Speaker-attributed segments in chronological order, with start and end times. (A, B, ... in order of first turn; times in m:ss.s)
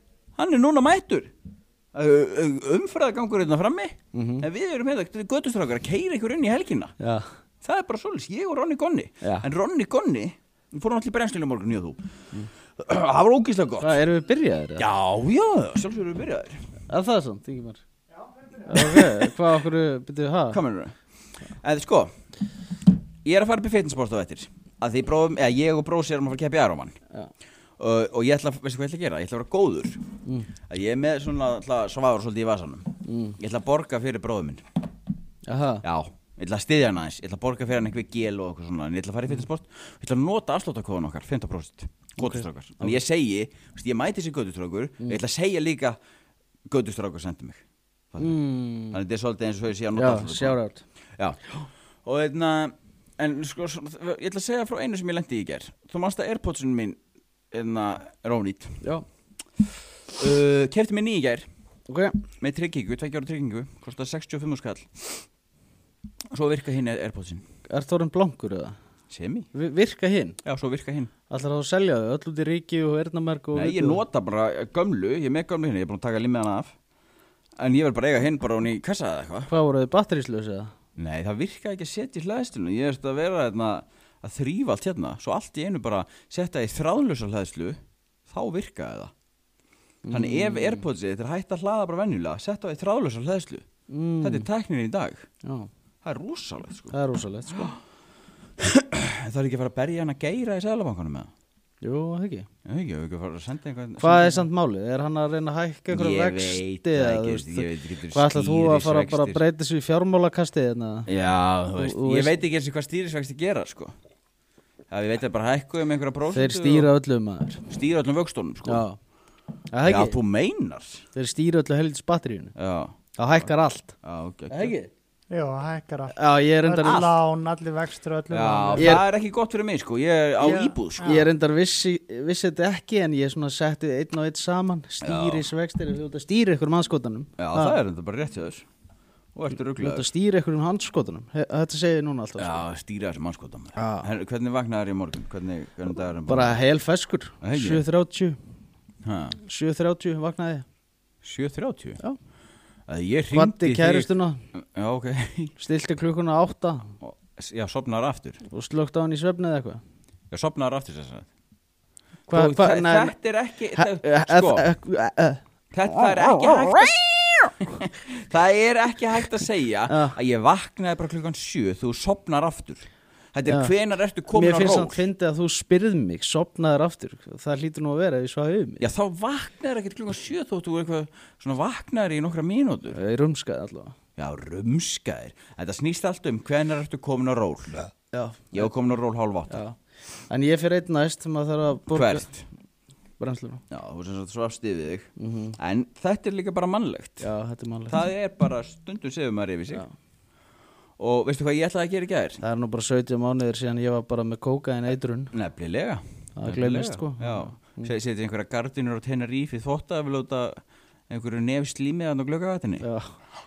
0:00.4-0:01.3 A
0:01.9-0:07.0 A
0:04.1-0:04.5 B
0:07.0-0:07.3 B
0:07.6-0:12.0 A
0:09.2-0:09.5 B
0:12.8-0:14.0 A
0:13.8-0:14.8 B
0:14.8-0:16.6 A
0:16.9-0:17.8 B
0:18.6-0:20.6 B
0:18.7-0:19.1 A
0:20.5-0:21.0 A
0:21.5-0:22.1 A
0:23.2-0:27.0 A
0:27.8-0:30.1 A
0:30.7-0:34.6 A
0:33.0-0:33.4 B
0:35.5-0:35.8 B
0:35.8-0:46.0 A
0:42.2-0:43.0 B
0:46.7-0:48.3 A
0:48.2-0:49.0 B
0:48.9-0:50.6 A
0:49.9-0:50.8 B
0:52.0-0:57.0 A
0:57.5-0:58.8 A
1:00.1-1:01.5 A
1:01.9-1:02.2 B
1:02.4-1:05.2 A
1:06.3-1:07.4 A
1:07.7-1:08.8 B
1:09.1-1:09.5 A
1:09.5-1:10.4 B
1:10.4-1:11.1 A
1:11.3-1:14.0 B
1:13.5-1:16.7 A
1:17.6-1:19.5 A
1:19.5-1:20.7 B
1:21.0-1:29.1 A
1:30.0-1:30.8 B
1:30.1-1:33.6 A
1:33.9-1:34.5 B
1:34.2-1:35.3 A
1:35.4-1:35.7 B
1:36.0-1:37.0 A
1:36.9-1:37.7 B
1:38.6-1:41.3 A
1:41.8-1:42.5 B
1:42.7-1:44.4 A
1:44.0-1:51.1 B
1:45.9-1:49.4 A
1:51.1-1:53.9 A
1:51.7-1:52.4 B
1:54.9-1:56.9 A
1:56.3-1:57.7 B
1:57.7-1:58.8 A
1:58.6-1:59.0 B
1:59.7-2:00.2 B
1:59.8-2:01.0 A
2:01.1-2:02.5 B
2:02.6-2:03.5 A
2:03.2-2:03.9 B
2:04.0-2:04.7 A
2:04.5-2:04.9 B
2:05.3-2:09.0 C
2:06.1-2:07.1 B
2:08.3-2:11.3 A
2:08.8-2:09.0 B
2:10.4-2:11.2 C
2:11.0-2:17.8 B
2:15.0-2:15.5 A
2:17.4-2:18.7 A
2:19.3-2:20.1 A
2:19.8-2:22.7 B
2:22.4-2:26.6 A
2:23.8-2:24.1 B
2:26.3-2:28.4 B
2:27.4-2:27.8 A
2:29.0-2:29.4 A
2:29.5-2:30.6 B
2:31.2-2:32.0 A
2:32.9-2:35.6 A
2:33.3-2:34.4 B
2:35.6-2:37.0 B
2:37.0-2:38.4 A
2:38.5-2:39.8 B
2:40.3-2:41.3 A
2:42.3-2:43.2 B
2:42.3-2:44.7 A
2:43.7-2:45.4 B
2:45.7-2:55.0 A
2:46.2-2:46.5 B
2:49.9-2:50.2 B
2:53.5-2:53.7 B
2:54.3-2:58.8 B
2:58.8-3:03.0 A
3:02.9-3:04.0 B
3:04.2-3:07.9 A
3:08.1-3:08.7 B
3:08.5-3:09.6 A
3:09.5-3:09.8 B
3:10.3-3:12.4 B
3:11.9-3:12.4 A
3:13.2-3:13.6 B
3:13.7-3:17.3 A
3:15.2-3:15.6 B
3:17.2-3:18.0 B
3:17.9-3:19.8 A
3:21.0-3:22.4 A
3:22.4-3:25.3 B
3:25.3-3:32.9 A
3:26.4-3:27.9 B
3:32.8-3:33.2 B